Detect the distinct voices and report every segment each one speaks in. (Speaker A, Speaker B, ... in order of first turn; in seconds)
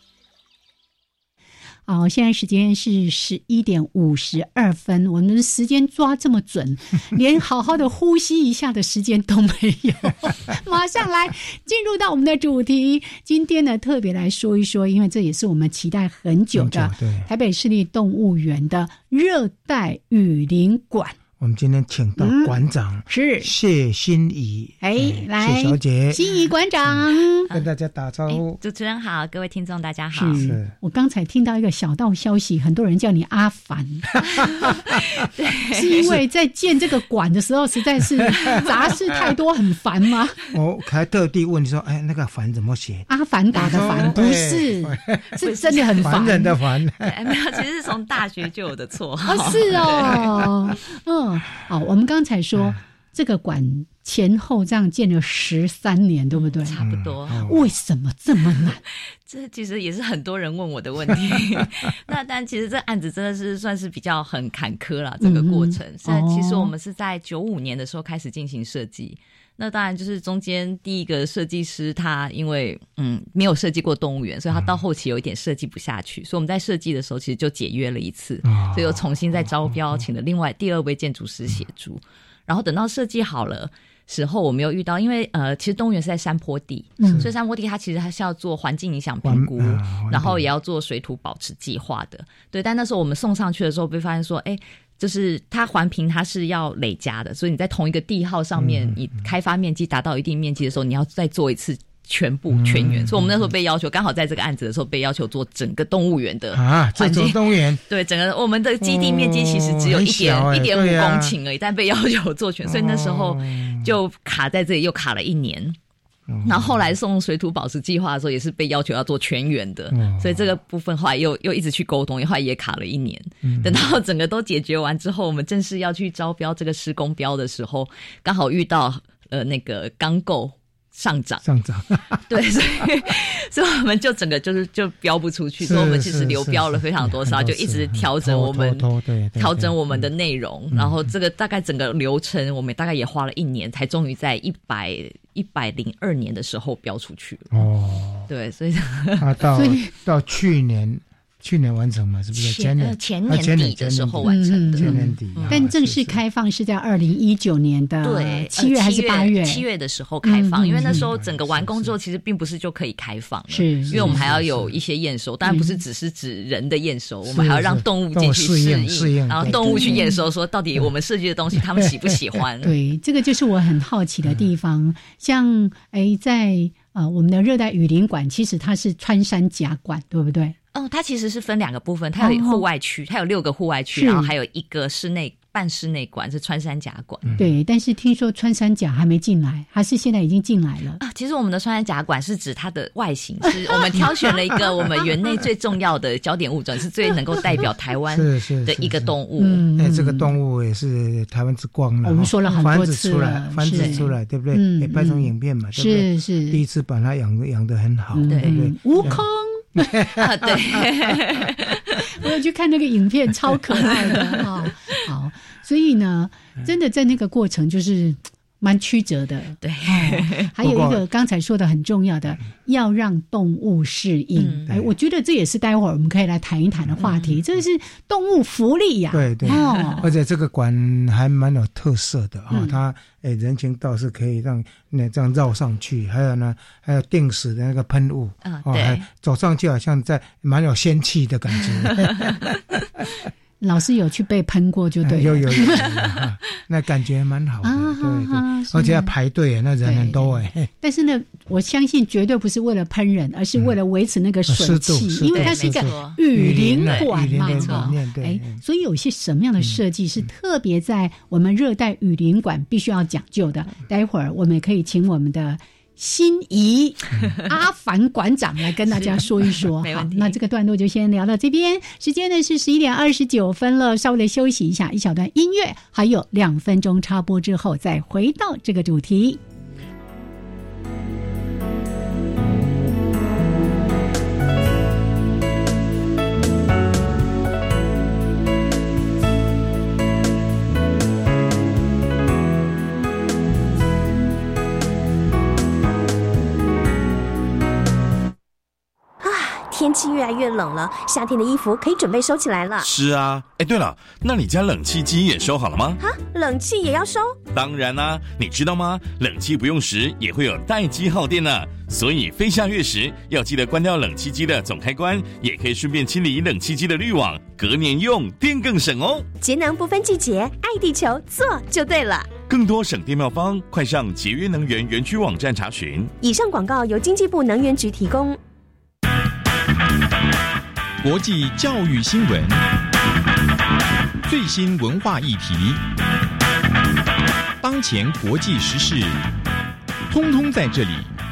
Speaker A: 1.9-21.2, 22.2-23.5, 24.8-27.5, 30.1-34.2, 35.7-40.4, 43.1-46.6, 49.3-56.8, 57.4-58.8, 65.2-66.7, 87.0-87.3, 149.6-149.9, 154.2-159.6, 160.2-161.1, 163.5-164.2, 165.4-165.8, 169.4-170.2, 172.6-180.6, 182.2-182.6, 183.9-184.3, 187.4-191.0, 199.4-200.3, 202.0-206.6, 208.1-209.8, 212.0-230.1, 232.5-232.8, 243.6-245.8, 247.6-249.1, 249.8-279.4
Speaker B: 16.5-17.3, 21.4-26.3, 26.9-28.6, 30.3-30.7, 38.2-38.5, 40.5-47.3, 56.8-57.6, 78.4-80.0, 87.0-87.3, 89.2-90.5, 98.6-99.0, 102.5-103.5, 106.5-107.8, 108.8-111.4, 112.7-113.9, 116.3-116.8, 119.9-120.5, 123.4-123.8, 131.4-132.2, 135.6-140.1, 140.7-141.0, 147.5-148.3, 149.2-156.2, 160.8-162.0, 163.9-164.8, 167.3-170.0, 197.5-199.2, 199.8-209.2, 209.8-210.9, 220.6-221.0, 229.1-243.0, 245.0-250.7, 254.5-258.6
Speaker C: 28.3-30.6, 35.2-36.1, 43.6-44.1, 45.4-46.2, 47.0-50.4, 56.4-57.5, 59.3-115.8, 116.4-131.4, 132.3-147.7, 148.3-149.3, 152.3-155.6, 158.0-172.7, 180.7-187.3, 191.0-199.7, 203.7-204.0, 208.3-209.0, 210.2-212.0, 219.6-220.5, 224.4-224.7, 227.0-227.4, 238.4-239.1, 241.8-242.4, 255.3-257.9, 269.0-270.4
Speaker D: 299.2-302.9, 306.0-307.4, 319.4-322.4, 326.2-328.4
Speaker E: 302.8-306.0, 307.5-319.3, 322.5-326.1
Speaker F: 331.0-332.6, 334.2-335.8, 337.6-339.2, 340.1-341.1